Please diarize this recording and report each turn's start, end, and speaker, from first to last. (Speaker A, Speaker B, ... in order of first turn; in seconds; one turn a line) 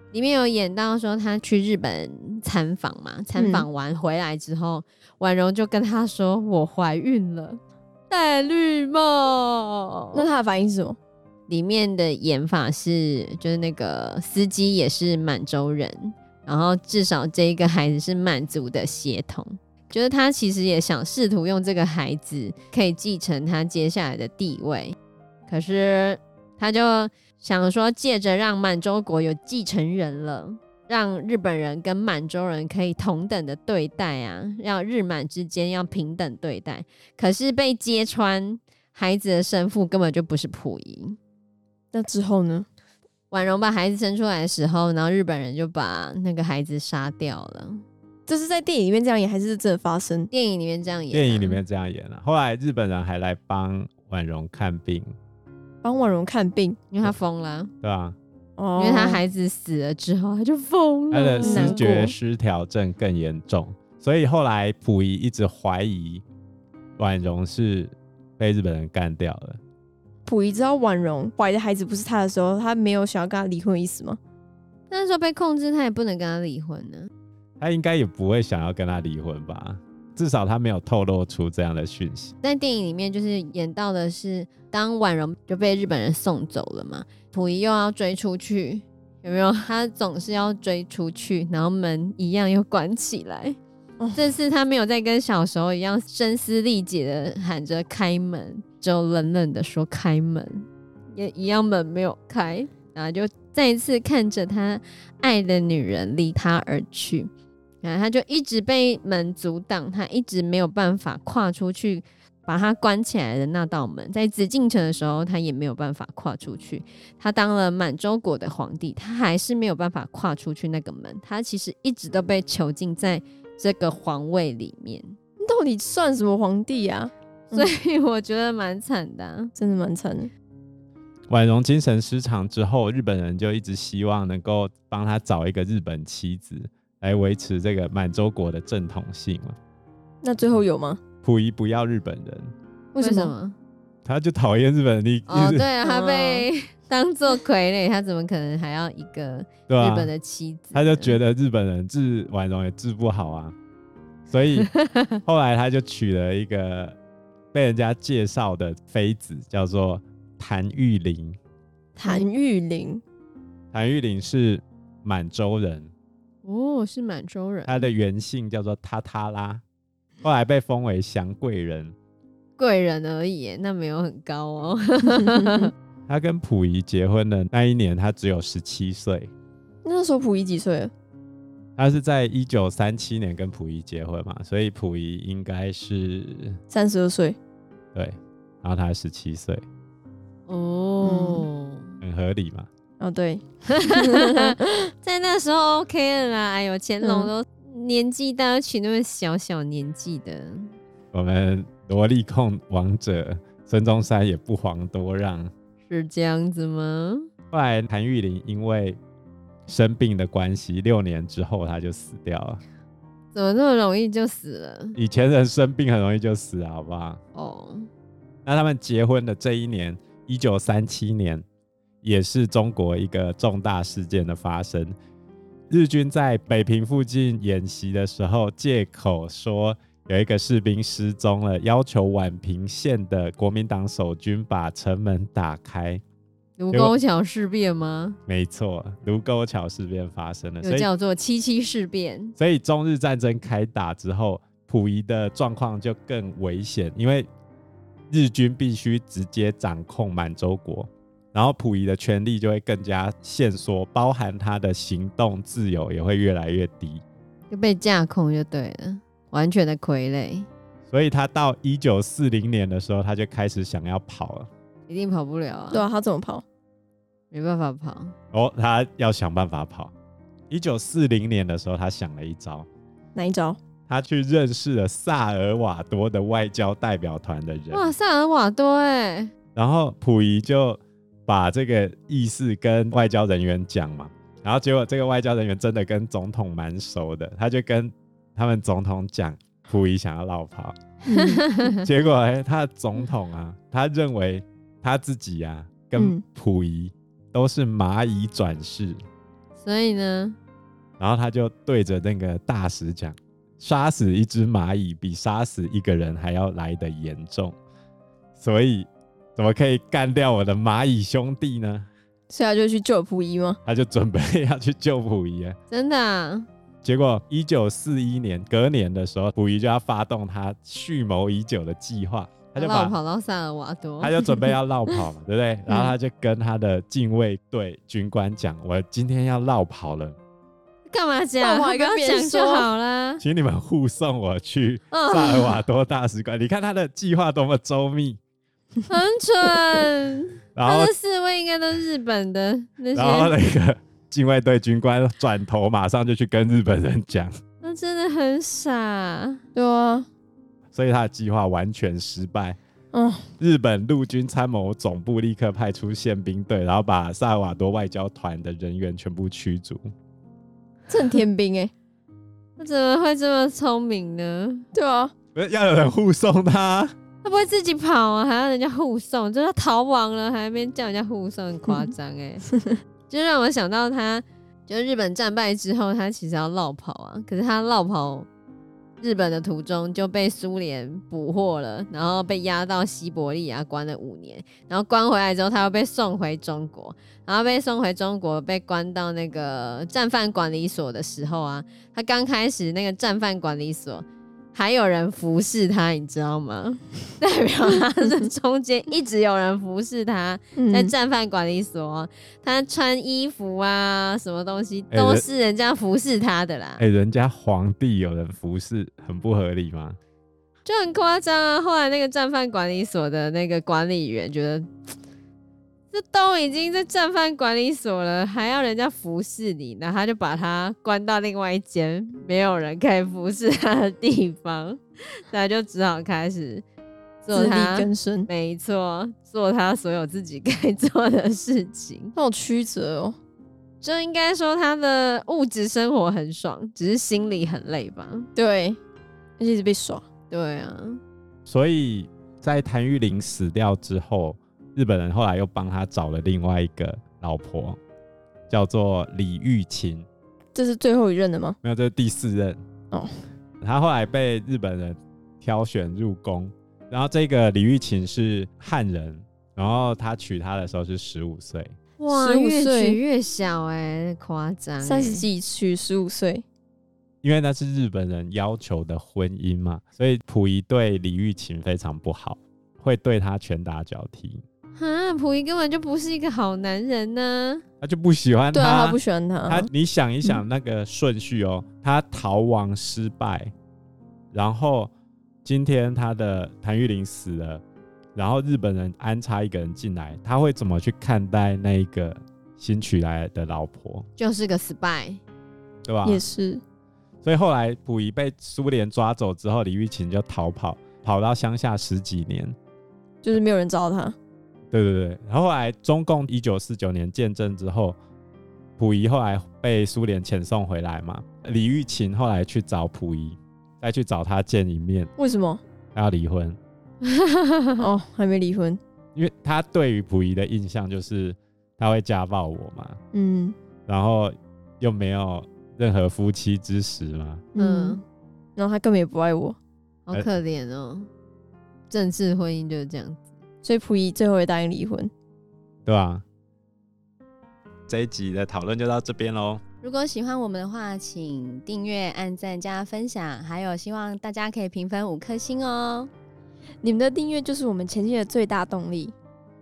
Speaker A: 0.1-10.3
Speaker B: 3.3-3.7
Speaker B: 10.1-11.0
Speaker A: 11.5-24.9
Speaker A: 25.5-41.2
Speaker B: 41.9-42.6
Speaker A: 43.3-47.8
Speaker B: 48.3-50.3
Speaker A: 50.3-51.6
Speaker C: 51.1-55.1
Speaker B: 55.8-56.8
Speaker A: 56.9-57.7
Speaker C: 57.8-58.1
Speaker B: 58.6-59.2
Speaker A: 58.8-61.9
Speaker C: 61.1-66.2
Speaker B: 61.4-62.1
Speaker C: 67.0-69.6
Speaker B: 70.2-74.2
Speaker A: 74.9-77.1
Speaker C: 77.6-82.3
Speaker A: 82.4-93.6
Speaker B: 94.0-94.2
Speaker A: 94.1-107.3
Speaker A: 107.8-125.1
Speaker B: 125.4-127.7
Speaker A: 127.5-129.5
Speaker B: 129.5-130.3
Speaker C: 131.3-139.6
Speaker B: 140.2-141.0
Speaker C: 141.2-142.5
Speaker A: 142.9-143.6
Speaker B: 143.0-143.3
Speaker C: 144.0-145.7
Speaker A: 145.3-151.2
Speaker B: 145.8-146.5
Speaker C: 149.7-150.1
Speaker C: 150.7-153.5
Speaker C: 154.3-154.7
Speaker A: 154.6-155.1
Speaker C: 155.2-157.0
Speaker C: 157.5-161.4
Speaker B: 162.0-163.0
Speaker A: 162.0-162.3
Speaker C: 163.7-165.9
Speaker A: 166.4-167.9
Speaker C: 167.6-169.6
Speaker C: 170.2-171.9
Speaker A: 172.6-175.7
Speaker B: 175.2-175.7
Speaker C: 176.1-179.3
Speaker B: 179.8-180.9
Speaker C: 181.8-186.6
Speaker B: 186.7-187.4
Speaker C: 187.9-189.6
Speaker A: 190.5-191.9
Speaker B: 191.0-191.5
Speaker C: 192.0-192.7
Speaker B: 193.0-194.8
Speaker A: 193.7-200.7
Speaker B: 197.0-197.3
Speaker C: 201.1-205.5
Speaker A: 205.8-207.3
Speaker C: 207.5-209.0
Speaker C: 209.7-212.6
Speaker A: 213.3-215.0
Speaker C: 214.9-217.2
Speaker A: 217.3-217.9
Speaker C: 218.4-221.4
Speaker C: 222.0-224.9
Speaker C: 225.7-236.0
Speaker A: 236.6-238.2
Speaker C: 236.7-237.0
Speaker C: 238.3-240.9
Speaker A: 240.6-242.3
Speaker C: 242.4-247.3
Speaker C: 248.1-257.0
Speaker A: 257.5-260.5
Speaker C: 260.9-264.5
Speaker A: 264.9-265.8
Speaker B: 265.7-266.4
Speaker A: 267.3-268.1
Speaker C: 268.3-269.9
Speaker C: 270.5-272.7
Speaker B: 273.1-273.6
Speaker C: 273.9-277.9
Speaker A: 277.7-279.3
Speaker C: 279.5-290.8
Speaker B: 291.0-291.4
Speaker A: 291.1-291.8
Speaker C: 291.8-299.0
Speaker B: 295.9-296.2
Speaker A: 299.6-300.4
Speaker C: 301.0-307.5
Speaker C: 308.4-311.9
Speaker B: 312.3-313.6
Speaker C: 313.6-315.6
Speaker A: 315.7-316.5
Speaker C: 316.8-323.0
Speaker A: 322.6-324.1
Speaker C: 324.0-330.1
Speaker A: 330.9-333.2
Speaker B: 331.4-332.7
Speaker C: 333.2-338.2
Speaker A: 334.9-335.6
Speaker A: 338.9-343.3
Speaker C: 340.5-340.9
Speaker C: 342.9-347.3
Speaker A: 347.6-349.4
Speaker B: 349.5-350.1
Speaker C: 350.7-352.6
Speaker B: 352.9-353.3
Speaker C: 353.4-359.8
Speaker B: 360.9-361.7
Speaker A: 362.6-364.6
Speaker B: 364.7-365.1
Speaker C: 365.3-366.9
Speaker A: 367.2-372.5
Speaker A: 373.1-378.3
Speaker A: 379.0-406.8
Speaker B: 400.6-400.9
Speaker C: 404.9-405.2
Speaker C: 406.8-410.0
Speaker A: 410.6-414.7
Speaker A: 415.9-426.6
Speaker A: 427.2-432.1
Speaker B: 427.3-428.3
Speaker B: 432.1-433.1
Speaker A: 433.8-438.3
Speaker B: 438.4-438.8
Speaker B: 439.4-440.0
Speaker A: 440.3-441.0
Speaker C: 441.4-447.8
Speaker C: 448.5-450.1
Speaker B: 450.5-451.6
Speaker C: 451.6-452.6
Speaker B: 452.9-453.2
Speaker C: 453.6-461.8
Speaker A: 462.0-465.2
Speaker B: 462.1-463.0
Speaker B: 464.8-466.4
Speaker C: 467.2-474.4
Speaker A: 474.8-477.6
Speaker C: 477.8-483.5
Speaker B: 478.5-479.7
Speaker C: 484.3-484.9
Speaker C: 485.4-487.6
Speaker C: 488.1-494.0
Speaker A: 494.2-495.2
Speaker C: 495.8-496.2
Speaker B: 496.0-496.6
Speaker C: 497.2-502.6
Speaker B: 503.2-504.1
Speaker C: 504.7-508.0
Speaker C: 508.8-515.1
Speaker B: 515.2-515.6
Speaker C: 515.9-516.6
Speaker A: 517.0-517.9
Speaker B: 517.8-518.8
Speaker C: 519.1-523.0
Speaker B: 523.1-523.5
Speaker C: 523.9-527.4
Speaker B: 527.5-528.0
Speaker A: 527.5-528.0
Speaker B: 528.5-529.6
Speaker A: 530.0-531.1
Speaker A: 531.9-533.3
Speaker B: 533.6-535.1
Speaker C: 535.9-536.2
Speaker C: 537.9-539.6
Speaker A: 539.8-546.1
Speaker B: 546.8-549.1